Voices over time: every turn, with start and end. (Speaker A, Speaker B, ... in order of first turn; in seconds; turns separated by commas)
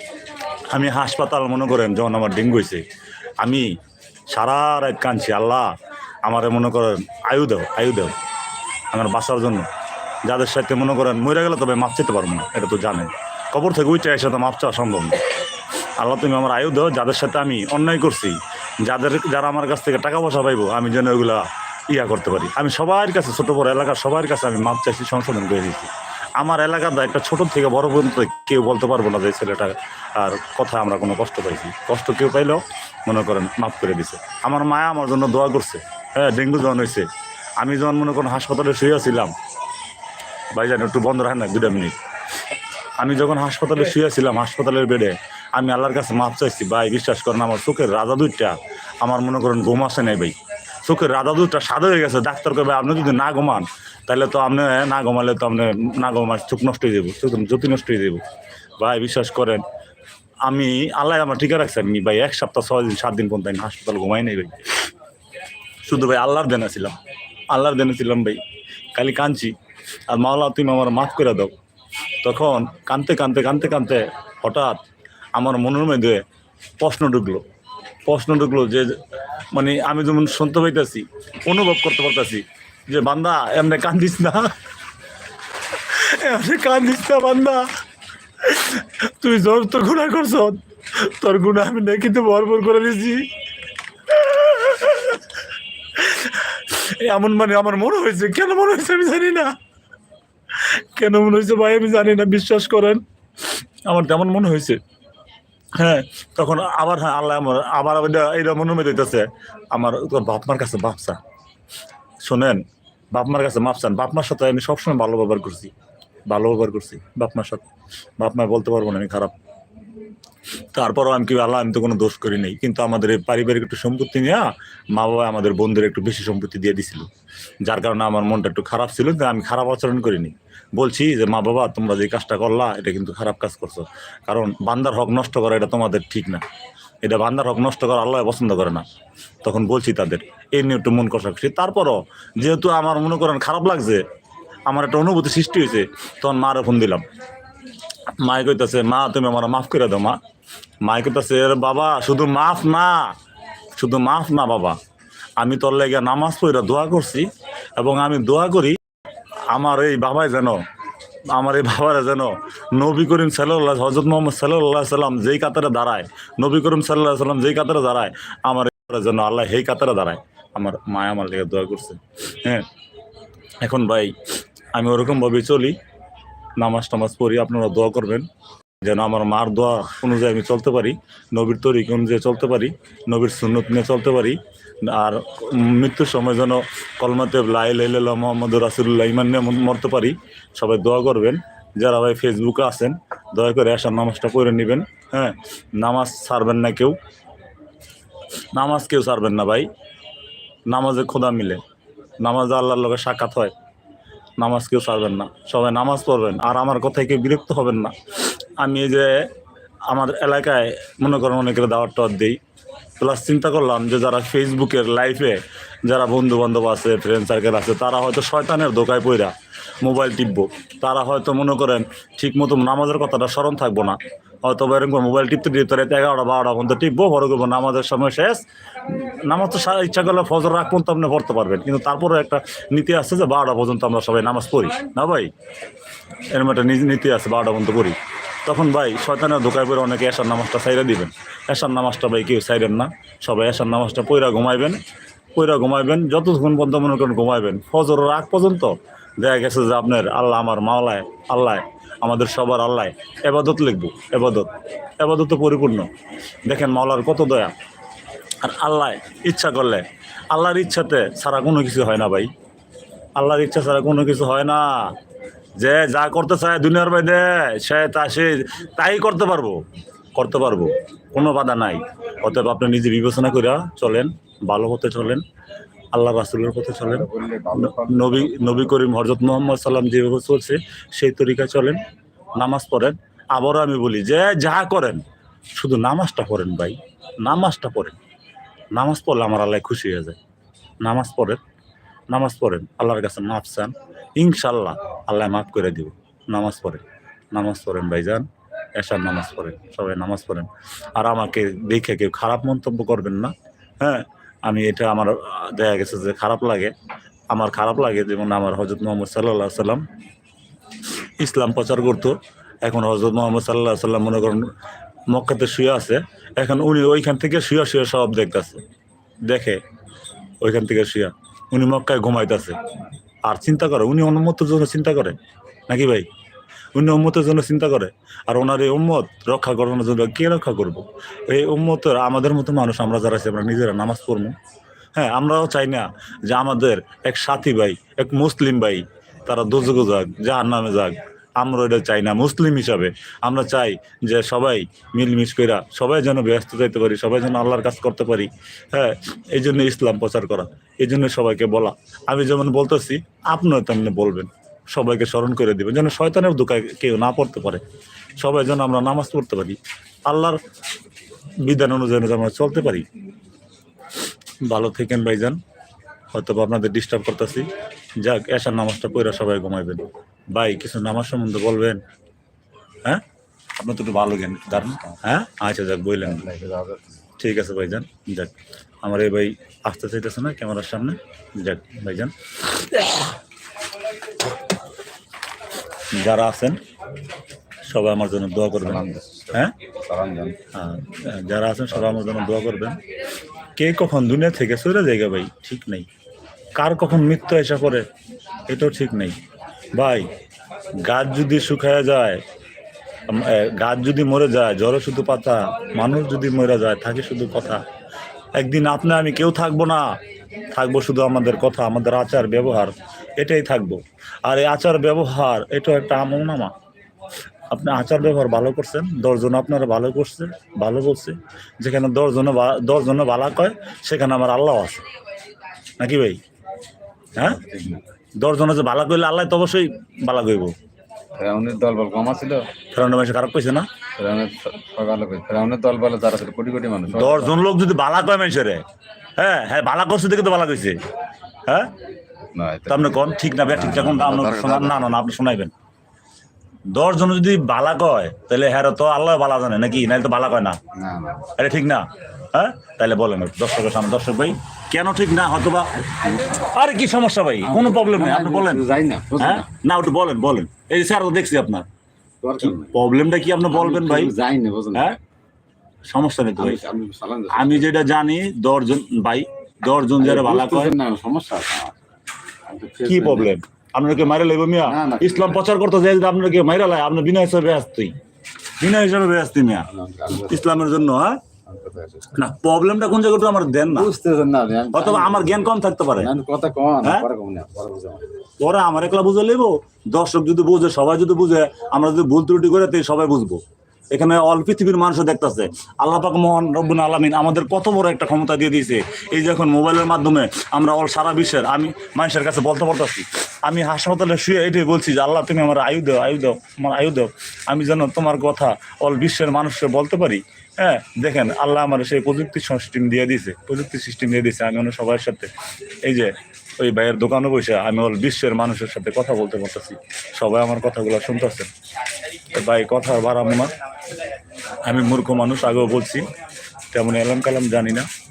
Speaker A: 0.7-2.8, Speaker A: 3.4-3.7, Speaker A: 4.3-5.7, Speaker A: 6.2-8.2, Speaker A: 8.9-9.7, Speaker A: 10.2-15.2, Speaker A: 16.0-37.1, Speaker A: 37.6-39.3, Speaker A: 40.5-42.0, Speaker A: 43.0-58.2, Speaker A: 58.8-59.6, Speaker A: 60.5-64.7, Speaker A: 65.8-67.0, Speaker A: 67.5-68.4, Speaker A: 69.0-69.5, Speaker A: 70.1-71.5, Speaker A: 72.2-74.8, Speaker A: 75.3-76.2, Speaker A: 76.8-77.4, Speaker A: 78.1-79.0, Speaker A: 79.5-84.5, Speaker A: 85.8-87.7, Speaker A: 88.4-93.3, Speaker A: 94.1-95.2, Speaker A: 96.0-99.5, Speaker A: 100.5-103.0, Speaker A: 103.9-104.8, Speaker A: 105.8-111.2, Speaker A: 112.2-112.6, Speaker A: 113.1-115.7, Speaker A: 116.3-117.7, Speaker A: 118.2-119.4, Speaker A: 120.7-127.1, Speaker A: 127.6-136.4, Speaker A: 137.0-138.9, Speaker A: 139.4-144.1, Speaker A: 144.7-147.1, Speaker A: 148.2-150.2, Speaker A: 150.8-153.1, Speaker A: 153.8-154.8, Speaker A: 155.4-158.8, Speaker A: 159.5-160.6, Speaker A: 161.3-172.7, Speaker A: 173.6-174.2, Speaker A: 174.7-175.8, Speaker A: 176.6-178.3, Speaker A: 178.8-197.0, Speaker A: 198.5-199.7, Speaker A: 200.7-201.6, Speaker A: 202.2-203.5, Speaker A: 204.4-207.9, Speaker A: 208.6-209.3, Speaker A: 209.9-212.4, Speaker A: 213.0-235.3, Speaker A: 236.3-244.8, Speaker A: 245.3-255.9, Speaker A: 256.5-257.5, Speaker A: 258.4-262.3, Speaker A: 263.2-264.9, Speaker A: 265.6-269.6, Speaker A: 270.2-275.2, Speaker A: 275.9-281.8, Speaker B: 276.8-278.7, Speaker A: 282.4-285.0, Speaker A: 285.6-288.0, Speaker A: 288.8-290.2, Speaker A: 290.8-291.4, Speaker A: 292.1-306.7, Speaker A: 307.3-309.8, Speaker A: 311.2-314.5, Speaker A: 315.1-318.6, Speaker A: 319.3-319.6, Speaker A: 320.4-322.6, Speaker A: 323.2-325.2, Speaker A: 325.7-326.1, Speaker A: 326.7-334.4, Speaker A: 334.9-357.6, Speaker A: 358.2-360.4, Speaker A: 361.4-362.9, Speaker A: 364.4-365.4, Speaker A: 366.1-367.5, Speaker A: 368.0-371.8, Speaker A: 373.6-376.3, Speaker B: 376.1-377.0, Speaker A: 377.2-383.1, Speaker A: 385.9-386.6, Speaker A: 387.7-389.6, Speaker B: 388.6-390.4, Speaker A: 390.5-392.8, Speaker A: 393.6-395.9, Speaker A: 396.6-397.9, Speaker A: 398.5-399.2, Speaker A: 399.8-400.1, Speaker A: 400.8-402.2, Speaker A: 403.1-407.6, Speaker A: 408.4-410.0, Speaker A: 410.5-416.5, Speaker A: 417.5-424.9, Speaker A: 425.8-426.2, Speaker B: 427.1-427.8, Speaker A: 427.2-427.4, Speaker A: 428.2-430.5, Speaker B: 431.2-432.4, Speaker A: 432.7-433.7, Speaker B: 434.0-437.4, Speaker A: 436.9-438.6, Speaker A: 439.2-440.8, Speaker A: 441.5-441.7, Speaker B: 442.3-442.9, Speaker A: 442.7-445.5, Speaker B: 443.5-444.9, Speaker A: 446.7-450.6, Speaker B: 450.7-451.3, Speaker A: 451.4-458.7, Speaker B: 457.4-459.5, Speaker A: 459.2-461.7, Speaker B: 462.2-462.7, Speaker A: 462.4-464.1, Speaker B: 463.5-465.0, Speaker A: 465.9-466.6, Speaker B: 466.4-467.7, Speaker A: 467.3-470.8, Speaker B: 470.0-471.8, Speaker B: 472.5-473.3, Speaker A: 472.9-477.9, Speaker B: 474.6-475.5, Speaker A: 478.6-481.2, Speaker B: 479.7-480.6, Speaker B: 481.5-482.2, Speaker A: 482.1-483.9, Speaker B: 483.7-485.4, Speaker A: 484.7-486.1, Speaker B: 486.0-488.1, Speaker A: 488.4-493.4, Speaker A: 493.9-515.3, Speaker A: 515.9-521.5, Speaker A: 522.3-523.5, Speaker A: 524.7-526.1, Speaker A: 526.7-527.9